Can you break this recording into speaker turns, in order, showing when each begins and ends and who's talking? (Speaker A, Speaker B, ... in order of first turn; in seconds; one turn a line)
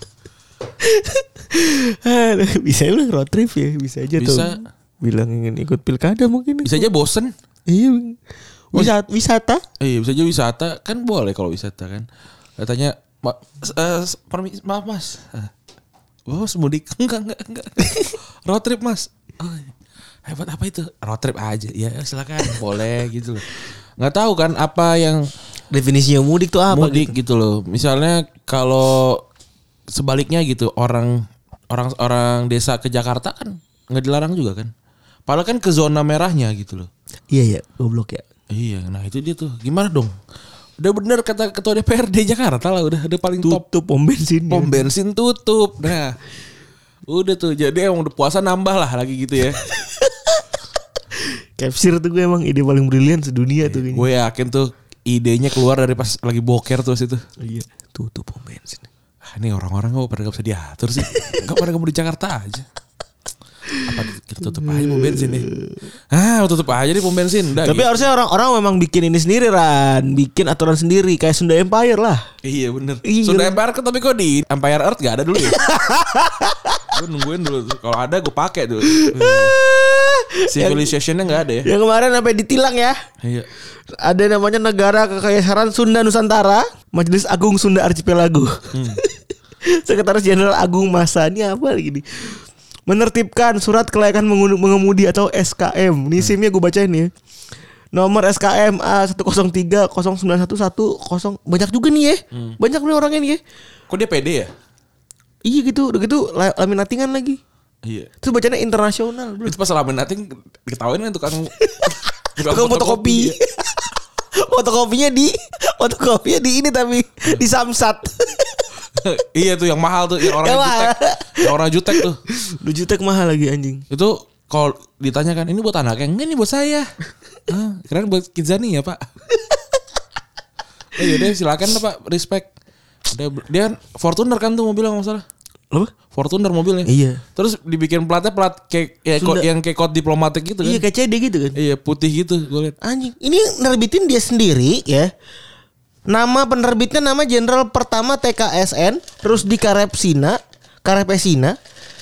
Speaker A: 0.8-6.9
Speaker B: 4.2-4.6
Speaker B: 6.6-7.3
Speaker A: 7.7-8.2
Speaker A: 8.7-9.6
Speaker B: 9.8-12.1
Speaker B: 12.6-15.5
Speaker B: 16.3-19.7
Speaker B: 20.2-25.3
Speaker A: 25.7-27.1
Speaker B: 26.7-29.2
Speaker B: 29.9-34.7
Speaker B: 35.3-36.9
Speaker A: 37.3-38.2
Speaker B: 38.5-40.1
Speaker B: 40.8-43.6
Speaker A: 43.4-44.9
Speaker B: 44.5-46.2
Speaker B: 47.1-49.6
Speaker A: 49.6-50.4
Speaker A: 51.2-54.1
Speaker B: 53.6-57.2
Speaker A: 57.4-58.9
Speaker B: 59.3-62.7
Speaker A: 61.1-61.4
Speaker B: 63.8-65.5
Speaker A: 64.4-65.9
Speaker B: 66.1-68.1
Speaker A: 67.6-72.2
Speaker B: 72.4-75.6
Speaker A: 73.0-73.6
Speaker A: 75.4-76.9
Speaker B: 76.9-79.5
Speaker A: 78.8-80.9
Speaker B: 80.5-81.7
Speaker A: 81.6-83.0
Speaker B: 83.2-83.5
Speaker A: 84.0-89.1
Speaker B: 88.7-89.0
Speaker A: 89.7-97.1
Speaker A: 97.9-103.4
Speaker B: 102.3-102.6
Speaker B: 103.9-104.5
Speaker A: 105.4-107.4
Speaker B: 107.8-108.1
Speaker A: 108.2-109.6
Speaker B: 109.4-113.4
Speaker A: 111.6-118.7
Speaker B: 118.9-122.2
Speaker A: 120.2-123.8
Speaker B: 123.9-126.9
Speaker B: 127.5-129.1
Speaker A: 129.4-129.6
Speaker B: 130.9-132.5
Speaker B: 133.1-135.2
Speaker B: 136.1-140.8
Speaker A: 136.8-137.2
Speaker A: 139.2-139.5
Speaker A: 140.6-141.6
Speaker B: 141.6-142.8
Speaker A: 142.8-145.1
Speaker A: 146.1-151.6